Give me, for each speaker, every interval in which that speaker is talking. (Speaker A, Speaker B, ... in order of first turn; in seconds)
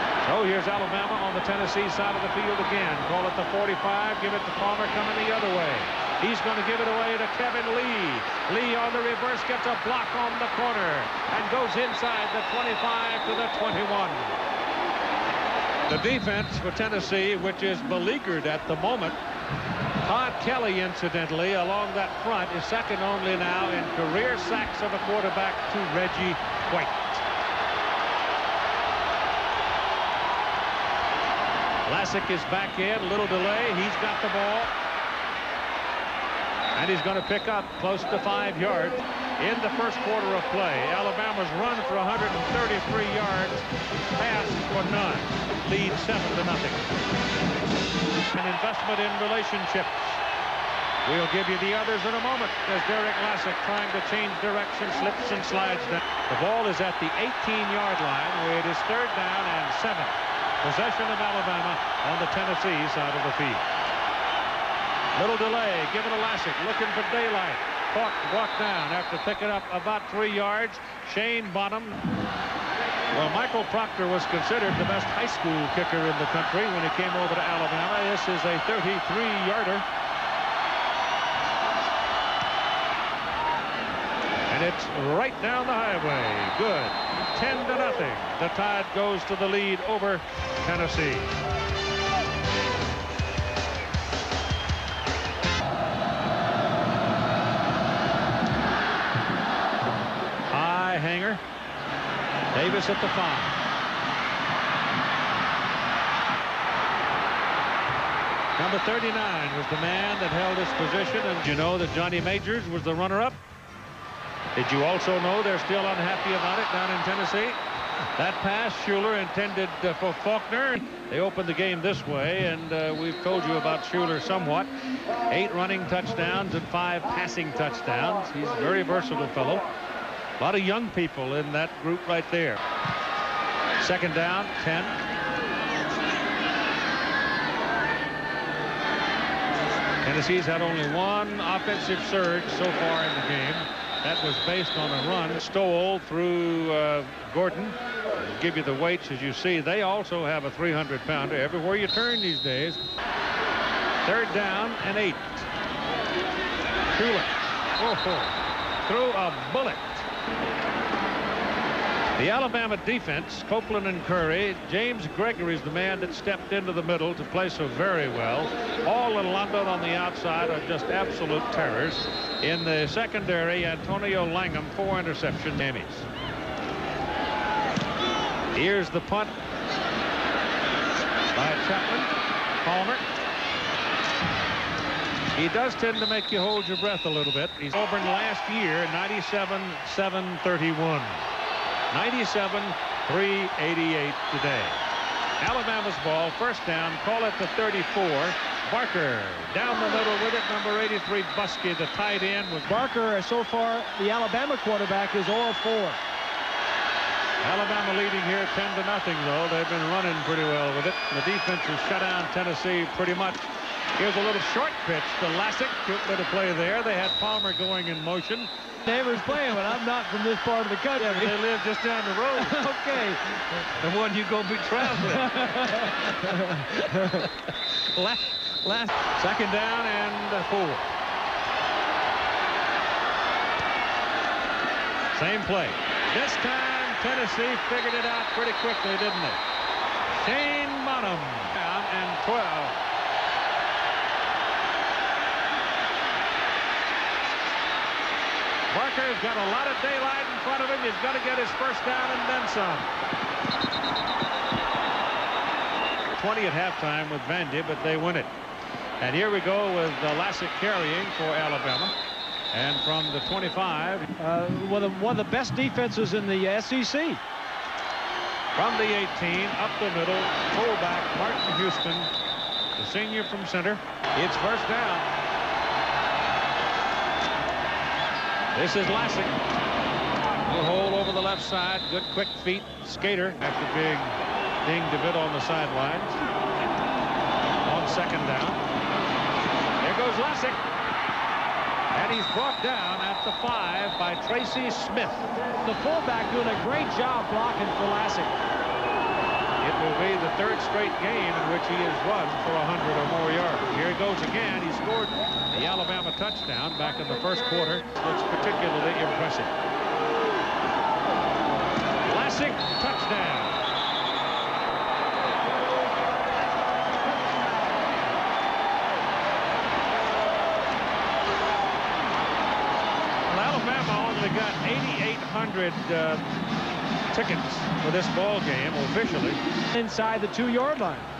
Speaker A: 0.2-14.4, 15.9-19.2, 20.0-27.2, 31.9-34.7, 36.7-46.9, 48.3-50.2, 51.0-63.6, 65.2-72.0, 73.1-79.8, 84.5-91.3, 100.5-101.4, 102.5-103.5, 108.6-113.4, 114.5-117.6, 118.2-124.7, 125.3-129.7, 130.4-132.6, 133.8-135.0, 140.0-152.8, 154.0-155.5, 156.9-160.1, 162.2-176.1, 178.5-179.3, 181.3-183.0, 185.3-191.2, 191.9-194.8, 195.4-202.8, 207.4-218.5, 221.0-222.7, 223.7-230.9, 235.1-239.4, 240.1-242.7, 248.7-252.9, 256.1-258.3, 259.0-261.9, 262.5-264.1, 268.6-272.1, 272.8-275.1, 278.5-279.4, 280.4-286.2, 287.6-288.6, 289.8-290.6, 291.9-295.3, 299.6-309.5, 312.0-313.6, 323.3-326.2, 327.1-329.4
Speaker B: 202.7-206.0, 218.9-221.4, 222.4-223.6, 224.9-227.2, 264.2-267.2, 295.6-298.4, 329.7-331.1